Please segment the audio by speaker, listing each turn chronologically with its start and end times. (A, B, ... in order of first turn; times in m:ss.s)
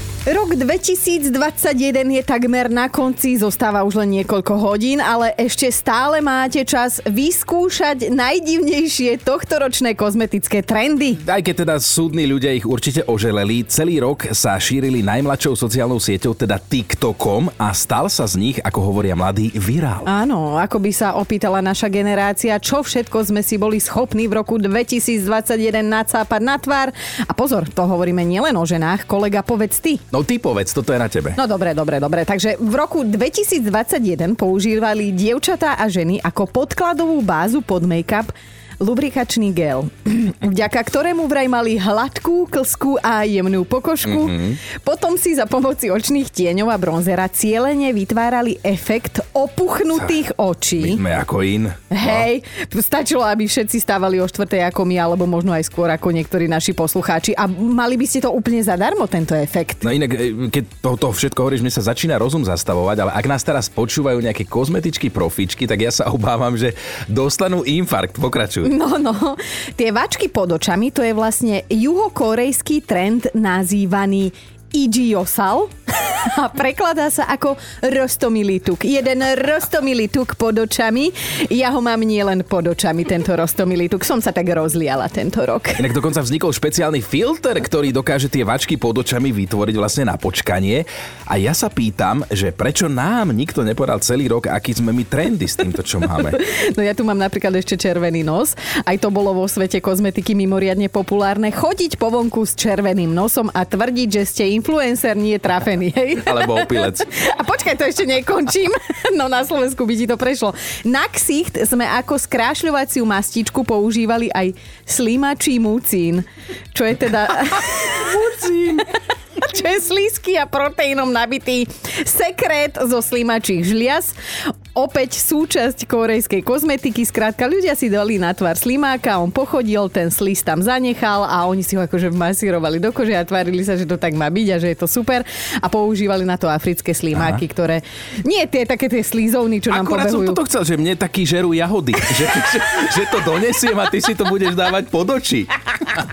0:00.3-0:11.2 A
0:11.2-0:20.0 B
0:20.0-0:30.0 A
0:30.1-0:31.4 B
0:31.4-0:51.0 A
0:44.0-0:44.6 B
0:50.8-0:52.3 B
0:51.9-0:59.8 A
0:59.8-1:08.7 B
1:08.6-1:25.8 A
1:25.8-1:36.4 B
1:36.3-2:04.1 A
1:46.2-1:47.1 B
2:04.7-2:20.4 A
2:17.1-2:17.4 B
2:19.7-2:25.5 B